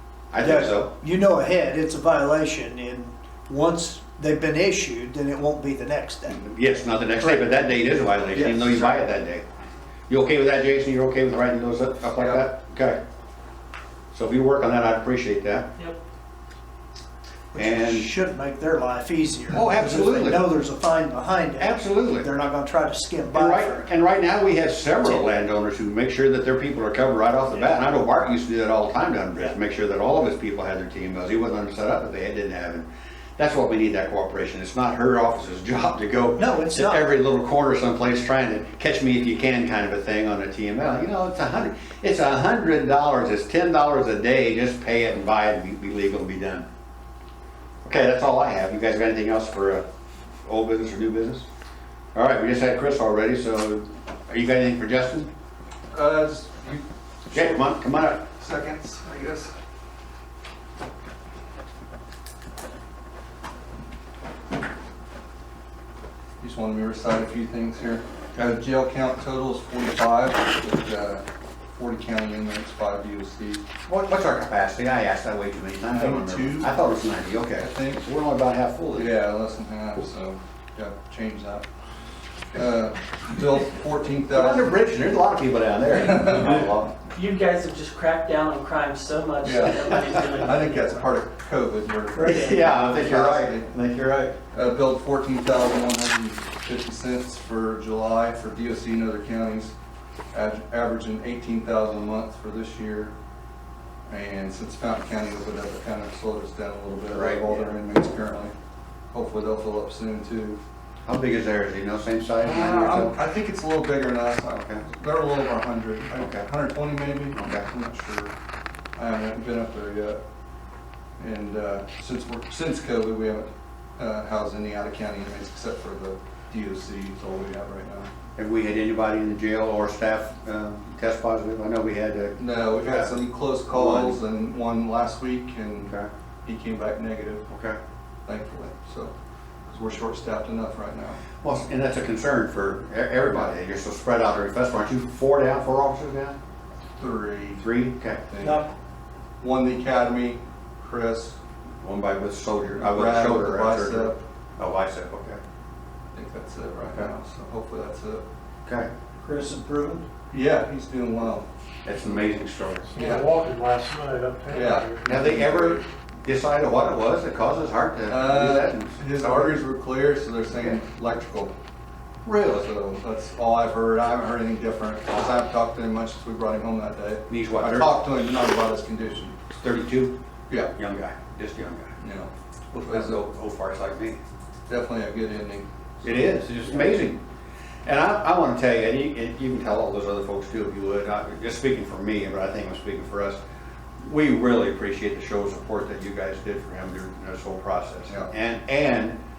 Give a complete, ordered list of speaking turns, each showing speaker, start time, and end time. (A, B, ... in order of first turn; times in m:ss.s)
0:00.3-0:00.9 A
0:00.4-0:06.4 B
0:06.3-0:09.4 A
0:07.2-0:07.6 B
0:08.3-0:09.1 C
0:10.1-0:13.0 A
0:12.1-0:12.5 C
0:14.1-0:15.7 A
0:17.5-0:23.9 B
0:17.6-0:18.1 A
0:19.5-0:20.5 A
0:21.6-0:22.3 A
0:23.3-0:46.7 A
0:25.0-0:25.3 B
0:36.4-0:37.1 B
0:47.8-0:49.8 A
0:50.4-0:51.5 A
0:52.1-0:55.3 A
0:55.9-0:57.6 C
0:57.3-0:58.3 A
0:58.4-0:59.5 C
1:06.4-1:11.2 C
1:11.8-1:13.6 C
1:13.9-1:19.1 A
1:15.9-1:16.7 C
1:17.6-1:18.0 C
1:19.0-1:21.6 C
1:22.5-1:24.8 C
1:24.3-1:26.9 A
1:27.1-1:31.1 D
1:29.4-1:33.7 C
1:32.2-1:34.4 A
1:32.3-1:32.6 D
1:34.5-1:39.7 C
1:40.3-1:43.1 C
1:44.1-1:48.5 C
1:47.1-1:47.7 A
1:49.1-1:50.6 C
1:51.1-1:53.2 A
1:52.4-1:58.3 C
1:54.4-1:54.8 A
1:56.2-1:56.5 A
1:57.3-1:57.7 A
1:59.0-2:00.2 C
2:01.2-2:08.1 C
2:08.4-2:13.1 A
2:12.4-2:15.9 C
2:13.7-2:14.2 A
2:16.4-2:17.5 C
2:17.5-2:17.8 A
2:18.3-2:19.1 C
2:19.7-2:21.2 C
2:21.4-2:26.4 A
2:27.0-2:27.6 C
2:27.6-2:28.2 A
2:28.2-2:28.7 C
2:28.4-2:28.7 B
2:29.4-2:31.4 C
2:31.8-2:35.4 A
2:32.8-2:34.2 C
2:36.1-2:38.3 C
2:39.2-2:40.0 B
2:40.3-2:41.5 C
2:41.8-2:42.9 A
2:42.9-2:45.4 E
2:43.0-2:43.4 C
2:44.5-2:45.8 C
2:45.1-2:49.6 A
2:48.1-2:51.5 C
2:52.2-2:52.6 A
2:52.5-2:59.4 C
2:55.1-2:55.4 A
2:57.3-2:58.0 A
2:59.6-3:00.2 A
3:00.5-3:00.7 C
3:00.7-3:01.9 A
3:02.0-3:02.3 C
3:02.7-3:04.2 A
3:02.9-3:03.2 C
3:04.7-3:06.4 C
3:06.0-3:07.2 A
3:07.8-3:13.4 A
3:14.0-3:19.2 A